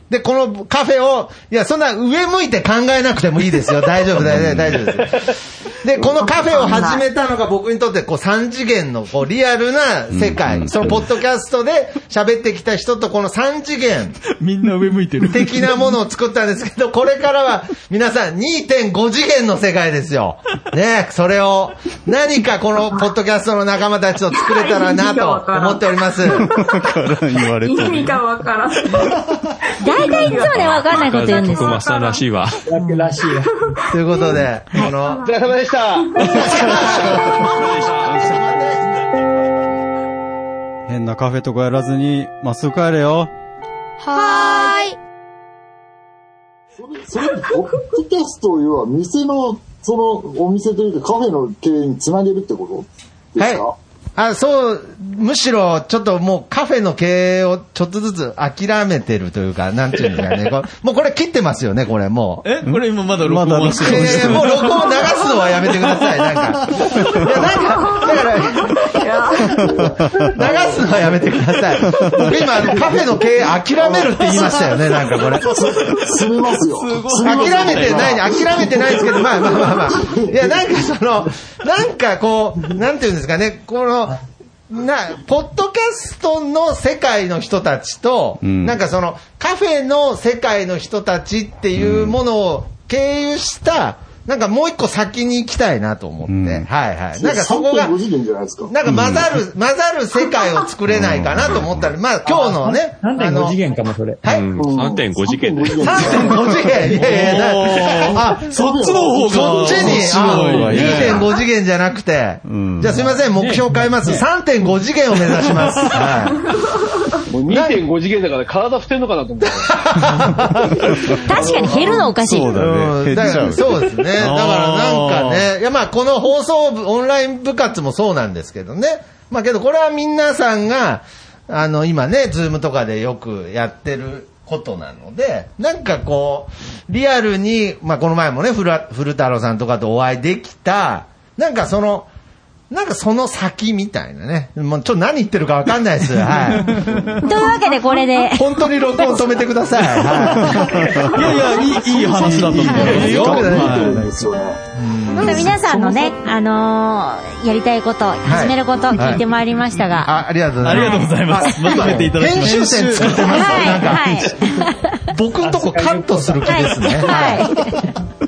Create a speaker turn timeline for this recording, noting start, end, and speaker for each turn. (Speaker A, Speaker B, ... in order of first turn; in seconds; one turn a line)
Speaker A: 0.1-14.2
Speaker B: 4.2-4.8
Speaker C: 6.3-7.0
Speaker B: 10.1-11.0
Speaker D: 14.3-15.7
Speaker A: 15.2-26.5
Speaker C: 24.3-26.7
Speaker B: 26.4-28.2
Speaker C: 27.4-29.2
Speaker E: 29.8-31.9
Speaker C: 29.9-32.2
Speaker F: 30.4-32.6
Speaker G: 32.7-33.5
Speaker C: 33.7-35.4
Speaker A: 33.9-35.3
Speaker H: 35.2-37.1
Speaker A: 36.2-39.0
Speaker B: 40.9-43.3
Speaker E: 44.1-44.8
Speaker I: 46.8-53.8
Speaker A: 53.4-53.6
Speaker A: 54.2-62.5
Speaker D: 62.4-64.8
Speaker B: 62.7-64.7
Speaker A: 63.7-68.9
Speaker C: 67.8-69.8
Speaker A: 70.3-75.5
Speaker I: 73.8-74.7
Speaker I: 75.4-80.8
Speaker D: 76.7-78.5
Speaker A: 77.2-98.0
Speaker B: 88.4-88.8
Speaker B: 91.8-92.2
Speaker B: 96.3-96.7
Speaker I: 97.2-98.8
Speaker A: 98.7-103.6
Speaker B: 98.9-99.2
Speaker B: 100.9-101.9
Speaker G: 102.2-104.2
Speaker A: 104.2-104.5
Speaker F: 104.3-106.3
Speaker I: 104.6-111.0
Speaker A: 105.8-108.5
Speaker D: 106.8-111.3
Speaker A: 109.2-116.5
Speaker B: 109.5-111.3
Speaker B: 112.5-113.1
Speaker G: 113.0-114.3
Speaker H: 117.3-119.7
Speaker A: 117.5-117.8
Speaker A: 119.5-142.1
Speaker H: 121.0-122.1
Speaker E: 121.3-122.6
Speaker B: 122.1-124.9
Speaker D: 124.2-125.4
Speaker A: 142.7-146.8
Speaker D: 146.6-147.1
Speaker E: 147.2-148.4
Speaker A: 148.3-150.8
Speaker B: 150.4-151.2
Speaker D: 151.1-154.0
Speaker B: 152.1-154.1
Speaker I: 152.2-154.6
Speaker A: 152.8-154.0
Speaker A: 154.8-155.6
Speaker E: 155.1-160.1
Speaker A: 158.2-159.2
Speaker A: 160.0-167.9
Speaker D: 160.6-163.6
Speaker E: 160.7-161.1
Speaker B: 162.3-164.0
Speaker E: 163.2-164.9
Speaker G: 165.4-167.1
Speaker E: 166.5-167.9